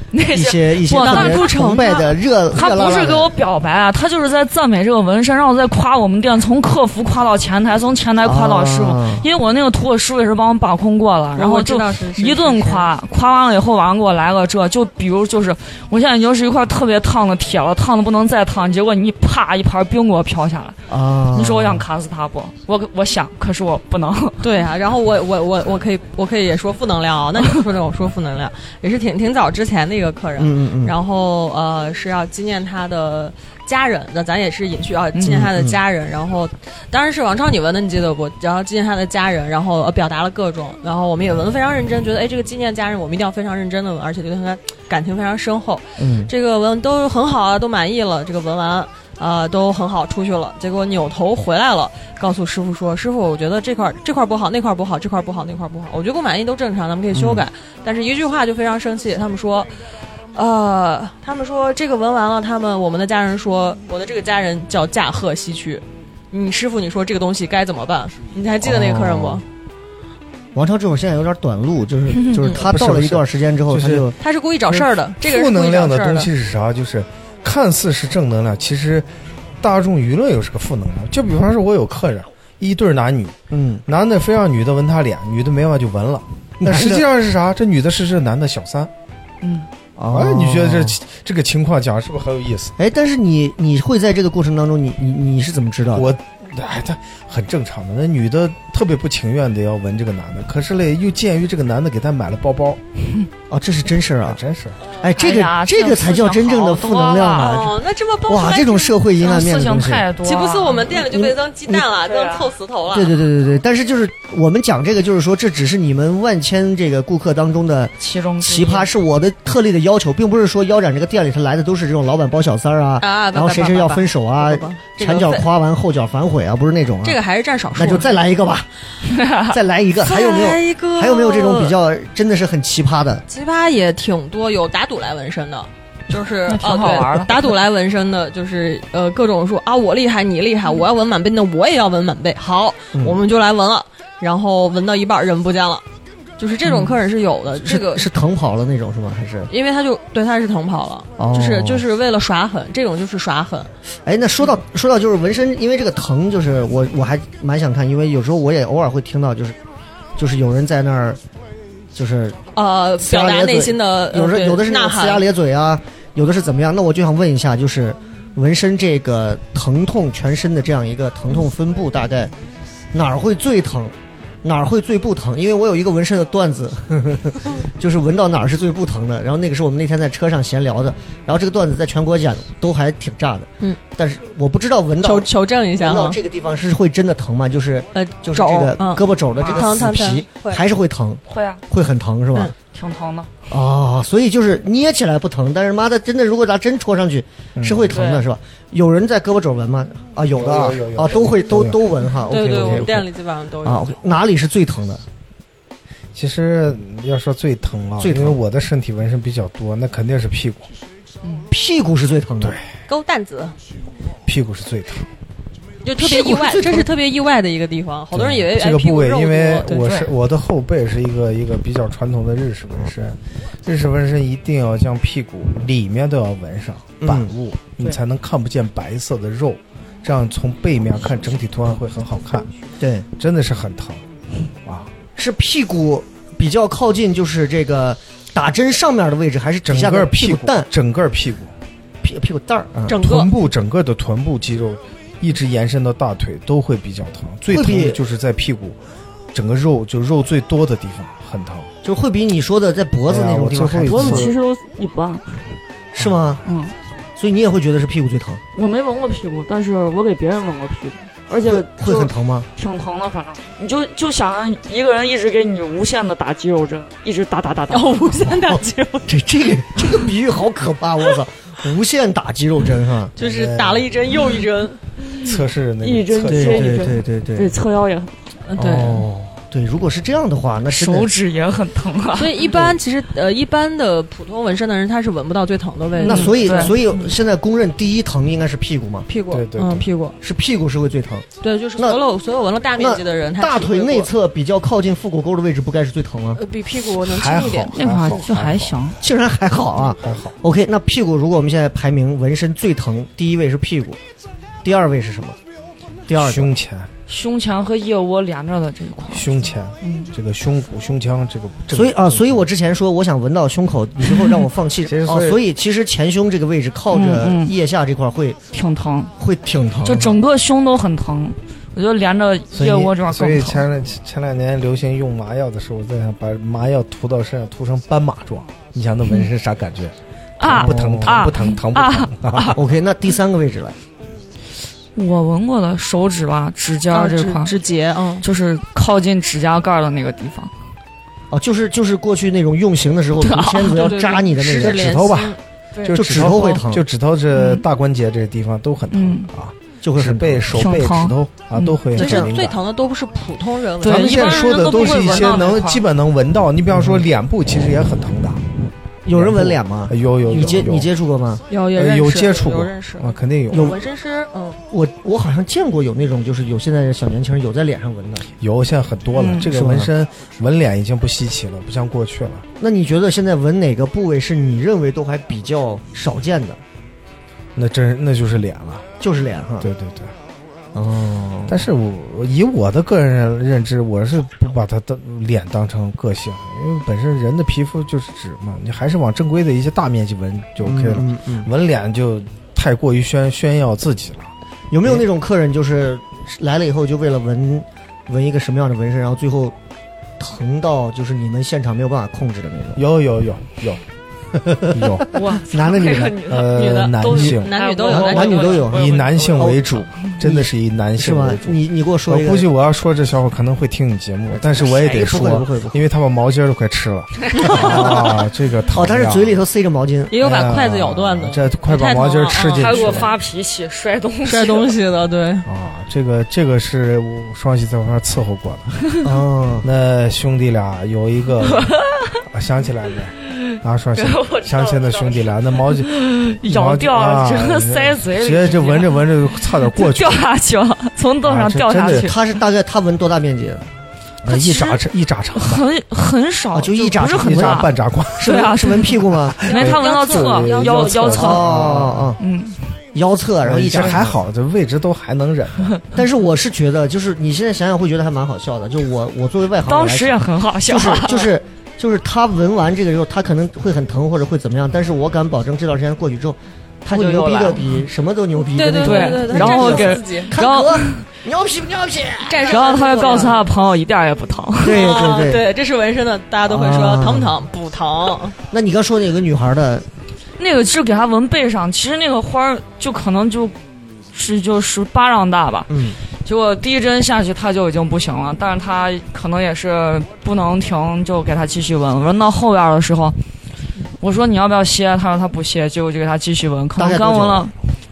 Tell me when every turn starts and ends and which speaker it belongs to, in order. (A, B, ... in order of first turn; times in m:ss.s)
0:00.1-0:20.8 A
0:00.3-0:03.3 B
0:00.9-0:02.0 C
0:08.2-0:09.3 B
0:11.4-0:12.9 C
0:20.9-0:21.8 B
0:21.3-0:24.5 A
0:24.4-0:59.7 C
0:30.4-0:31.0 B
0:35.1-0:35.5 A
0:35.3-0:35.8 B
0:46.0-0:46.3 B
0:57.1-0:57.4 B
1:00.3-1:09.4 C
1:08.6-1:09.4 B
1:10.5-1:14.1 B
1:12.1-1:12.4 A
1:12.5-1:14.1 D
1:14.2-1:16.3 C
1:14.7-1:19.1 D
1:19.6-1:23.4 D
1:23.5-1:23.8 B
1:23.9-1:28.9 D
1:26.6-1:27.0 B
1:29.4-1:29.7 A
1:30.0-1:31.0 B
1:30.1-1:32.7 D
1:32.8-1:36.1 B
1:35.9-1:42.8 D
1:43.5-1:44.4 B
1:44.2-1:44.8 D
1:45.0-1:50.0 B
1:45.1-1:47.6 A
1:47.4-1:49.0 C
1:49.2-1:51.0 A
1:50.2-1:53.2 C
1:50.9-1:51.8 B
1:52.0-1:52.4 A
1:52.9-2:07.2 B
1:58.0-1:58.9 A
2:03.0-2:05.5 C
2:07.0-2:08.2 C
2:07.7-2:08.7 B
2:09.1-2:09.5 A
2:09.4-2:13.2 B
2:10.0-2:11.8 C
2:13.3-2:25.8 C
2:16.4-2:17.3 A
2:26.4-2:28.1 C
2:26.6-2:26.9 A
2:27.6-2:29.5 B
2:29.5-2:33.7 C
2:31.2-2:31.8 B
2:34.0-2:39.6 B
2:40.2-2:41.2 B
2:41.9-2:42.4 B
2:42.5-2:45.2 C
2:43.0-2:52.3 B
2:52.9-3:12.5 B
3:05.0-3:06.2 C
3:07.9-3:10.6 C
3:09.4-3:09.6 A
3:11.3-3:11.6 A
3:12.7-3:13.3 A
3:13.5-3:23.0 B
3:17.6-3:17.9 D
3:17.9-3:18.2 A
3:20.3-3:23.0 D
3:22.3-3:24.0 C
3:23.6-3:25.0 B
3:26.1-3:30.7 D
3:28.0-3:28.4 B
3:31.5-3:32.6 B
3:32.4-3:32.7 D
3:32.9-3:33.6 C
3:34.2-3:35.1 D
3:35.8-3:40.1 C
3:36.0-3:36.9 B
3:38.1-3:52.5 D
3:47.0-3:47.3 B
3:52.8-3:53.1 B
3:53.2-3:54.0 D
3:54.6-3:54.9 D
3:55.2-4:00.7 B
3:59.7-4:01.5 D
4:02.0-4:03.0 B
4:02.9-4:03.3 C
4:03.0-4:08.8 D
4:07.5-4:08.0 B
4:09.3-4:11.7 D
4:11.8-4:14.3 B
4:13.1-4:14.3 D
4:13.8-4:15.4 A
4:15.9-4:16.4 B
4:16.4-4:16.7 A
4:17.2-4:18.4 B
4:18.5-4:28.1 A
4:21.3-4:22.5 B
4:27.7-4:29.2 C
4:29.1-4:33.1 B
4:33.2-4:34.8 C
4:33.2-4:33.9 D
4:35.2-4:36.8 D
4:35.8-4:38.1 A
4:36.2-4:37.5 B
4:38.4-4:39.1 C
4:38.6-4:41.1 B
4:40.7-4:42.4 A
4:42.2-4:47.1 C
4:46.0-4:46.7 A
4:46.0-4:49.1 B
4:49.1-4:50.2 C
4:49.3-4:49.9 D
4:50.2-4:51.2 B
4:51.4-4:54.1 C
4:52.8-4:56.4 B
4:56.4-4:58.2 C
4:56.9-4:58.8 D
4:57.7-4:59.0 A
4:59.0-5:04.0 B
5:00.0-5:00.3 D
5:04.6-5:05.4 B
5:06.1-5:06.5 B
5:06.2-5:06.9 D
5:07.1-5:10.1 A
5:09.1-5:12.4 D
5:11.7-5:18.4 B
5:14.9-5:15.4 D
5:16.9-5:17.5 A
5:18.5-5:19.1 A
5:19.2-5:20.2 B
5:19.8-5:23.6 A
5:22.5-5:32.6 D
5:30.4-5:32.6 A
5:30.5-5:31.3 B
5:32.5-5:33.8 B
5:34.9-5:37.5 A
5:36.9-5:38.2 C
5:38.2-5:40.5 A
5:41.3-5:45.1 B
5:43.2-5:43.9 A
5:43.7-5:45.4 C
5:44.5-5:52.6 D
5:45.9-5:46.8 B
5:47.3-5:47.6 A
5:48.9-5:49.3 A
5:49.8-5:50.7 B
5:50.5-5:51.8 A
5:51.9-5:55.4 C
5:52.0-5:52.3 B
5:53.8-5:55.8 A
5:53.8-5:58.4 D
5:56.7-5:57.0 B
5:59.0-6:01.4 B
5:59.1-6:00.9 D
6:01.5-6:04.6 C
6:01.7-6:03.7 D
6:03.5-6:03.8 B
6:04.7-6:08.2 B
6:08.4-6:12.4 D
6:09.2-6:09.5 A
6:09.4-6:09.9 B
6:12.6-6:16.6 B
6:17.6-6:18.8 D
6:19.0-6:19.7 B
6:19.6-6:20.1 D
6:20.7-6:21.6 B
6:21.5-6:34.3 D
6:30.6-6:31.5 B
6:34.7-6:39.6 B
6:40.2-6:42.8 B
6:42.8-6:43.8 D
6:44.4-6:46.2 B
6:44.7-6:45.1 D
6:45.1-6:50.1 A
6:46.2-6:47.5 D
6:46.5-6:48.8 C
6:47.9-6:49.6 B
6:48.6-6:59.4 D
6:50.2-6:52.5 B
6:54.3-6:55.8 B
6:57.4-7:00.2 B
7:00.1-7:03.1 C
7:00.2-7:03.1 D
7:02.5-7:04.7 A
7:04.2-7:05.5 C
7:05.4-7:08.9 D
7:09.0-7:09.7 B
7:09.6-7:11.7 D
7:11.5-7:12.2 A
7:12.3-7:20.2 D
7:14.0-7:22.2 A
7:21.2-7:22.1 D
7:21.8-7:23.7 B
7:24.2-7:25.6 D
7:24.2-7:24.8 A
7:25.4-7:31.5 A
7:26.5-7:29.4 B
7:27.2-7:28.4 D
7:29.3-7:32.2 D
7:29.4-7:31.3 C
7:31.1-7:32.2 B
7:32.2-7:32.7 A
7:32.9-7:34.2 B
7:33.4-7:35.8 D
7:35.9-7:53.3 B
7:39.6-7:41.2 A
7:46.9-7:47.8 A
7:48.5-7:50.3 C
7:48.8-7:51.0 A
7:52.2-7:53.4 C
7:52.5-7:55.0 A
7:54.6-7:55.5 B
7:54.6-7:58.4 C
7:56.5-7:57.4 B
7:58.5-7:59.9 B
8:00.4-8:03.6 A
8:04.1-8:13.2 A
8:05.7-8:06.0 B
8:14.0-8:17.5 A
8:16.8-8:17.5 B